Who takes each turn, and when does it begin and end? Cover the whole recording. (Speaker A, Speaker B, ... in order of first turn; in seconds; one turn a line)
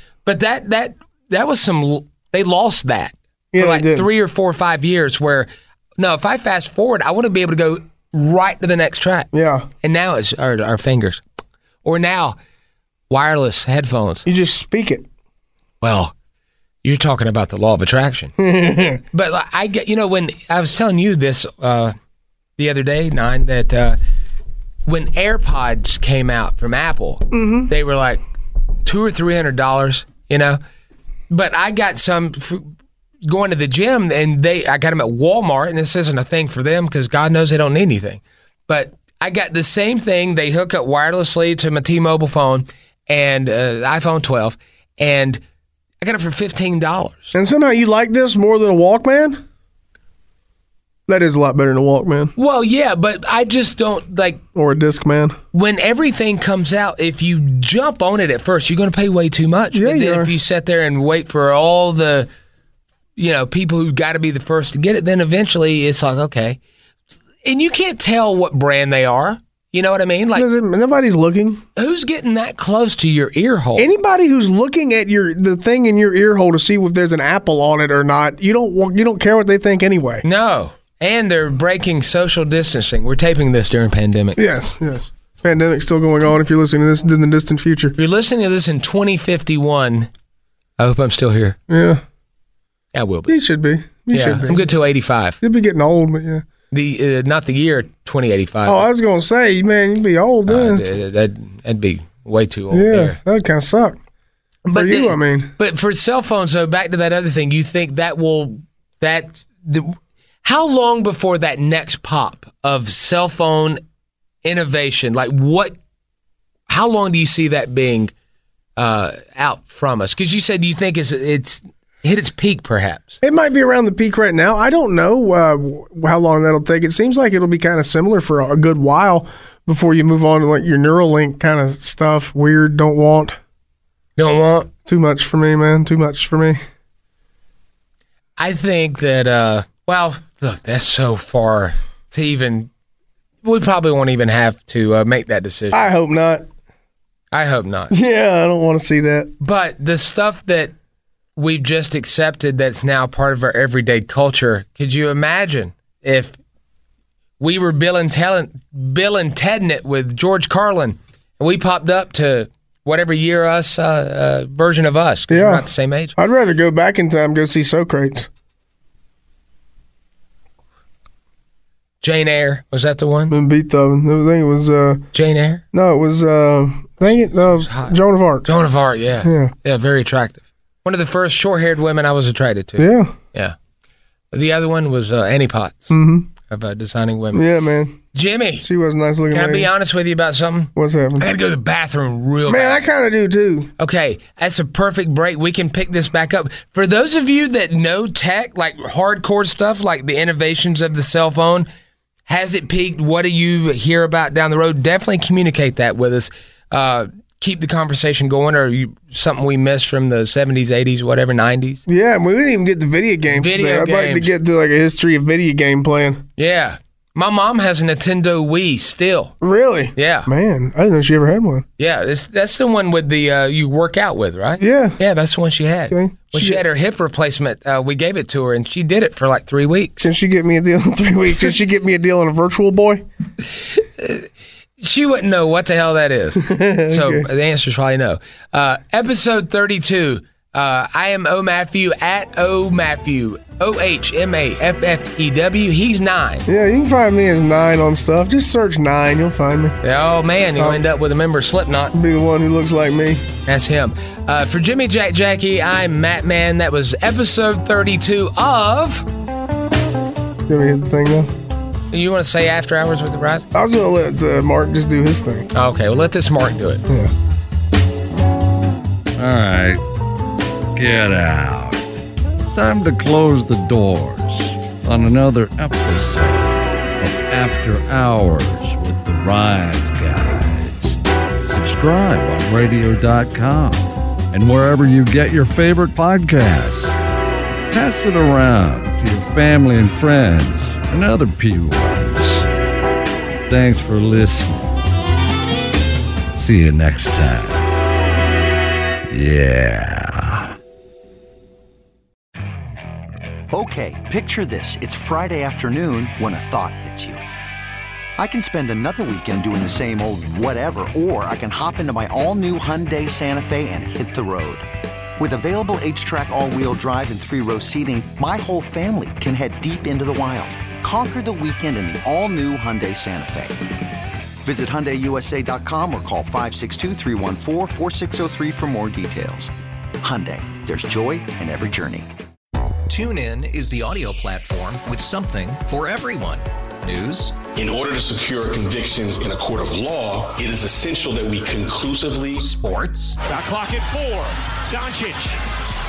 Speaker A: 0.2-9.3
Speaker B: 3.5-4.1
Speaker B: 9.3-9.7
Speaker A: 9.8-11.2
Speaker A: 11.8-12.4
Speaker A: 13.1-14.2
Speaker B: 14.2-15.1
Speaker A: 15.8-16.1
Speaker A: 16.8-18.3
Speaker B: 18.4-19.0
Speaker A: 19.1-21.9
Speaker A: 22.6-24.0
Speaker A: 24.9-28.2
Speaker B: 27.3-27.7
Speaker A: 28.8-30.6
Speaker A: 31.3-32.7
Speaker A: 33.2-45.4
Speaker A: 46.0-47.3
Speaker B: 47.3-49.4
Speaker B: 51.1-52.3
Speaker A: 52.4-54.4
Speaker B: 54.5-55.4
Speaker A: 55.5-62.3
Speaker B: 59.7-60.3
Speaker A: 63.2-66.6
Speaker A: 67.4-70.5
Speaker B: 70.3-71.6
Speaker A: 71.8-73.9
Speaker B: 73.8-80.2
Speaker A: 80.2-84.4
Speaker B: 84.4-87.9
Speaker A: 88.0-90.1
Speaker A: 90.8-91.6
Speaker B: 91.7-92.0
Speaker A: 92.9-93.3
Speaker B: 93.3-94.7
Speaker A: 94.1-95.4
Speaker B: 95.4-96.4
Speaker A: 96.7-98.9
Speaker B: 98.6-100.8
Speaker A: 100.5-103.2
Speaker B: 102.7-104.0
Speaker A: 104.6-113.8
Speaker B: 104.7-105.5
Speaker A: 114.4-115.8
Speaker A: 116.7-118.1
Speaker A: 118.8-123.2
Speaker B: 123.2-133.4
Speaker A: 134.2-134.7
Speaker B: 134.8-136.6
Speaker A: 138.4-142.7
Speaker A: 143.4-145.8
Speaker B: 145.7-146.4
Speaker A: 147.3-147.9
Speaker B: 147.9-149.3
Speaker A: 149.4-150.7
Speaker A: 151.3-156.4
Speaker A: 157.4-166.1
Speaker B: 165.3-168.3
Speaker A: 172.0-173.4
Speaker B: 173.3-175.1
Speaker A: 175.1-175.6
Speaker B: 175.7-178.5
Speaker A: 177.0-177.9
Speaker A: 178.4-183.5
Speaker B: 179.2-179.5
Speaker B: 182.8-183.1
Speaker A: 184.3-187.4
Speaker B: 185.9-186.3
Speaker B: 187.3-188.0
Speaker A: 188.1-188.7
Speaker B: 188.6-189.7
Speaker A: 189.3-192.9
Speaker B: 190.8-191.2
Speaker B: 192.5-193.7
Speaker A: 193.8-201.7
Speaker A: 202.3-211.8
Speaker B: 211.9-216.3
Speaker A: 213.3-214.3
Speaker A: 216.4-219.3
Speaker B: 219.4-221.7
Speaker A: 219.9-220.3
Speaker A: 221.8-230.1
Speaker B: 224.6-225.0
Speaker B: 225.9-226.6
Speaker B: 230.0-233.0
Speaker A: 233.7-234.3
Speaker A: 234.8-246.4
Speaker B: 236.4-237.3
Speaker B: 246.5-249.8
Speaker A: 249.8-251.9
Speaker B: 250.6-250.8
Speaker B: 251.9-253.2
Speaker A: 253.4-259.1
Speaker B: 260.5-261.3
Speaker A: 261.9-263.5
Speaker B: 263.5-265.5
Speaker A: 265.5-266.8
Speaker C: 269.2-269.8
Speaker C: 270.8-271.8
Speaker C: 272.5-287.0
Speaker C: 287.7-292.4
Speaker C: 293.5-294.8
Speaker C: 296.3-297.6
Speaker C: 299.1-300.6
Speaker D: 303.5-307.2
Speaker D: 308.2-314.7
Speaker D: 315.2-323.6
Speaker D: 324.4-332.1
Speaker E: 332.9-337.4
Speaker F: 337.5-342.4
Speaker E: 342.4-343.2
Speaker G: 343.2-345.4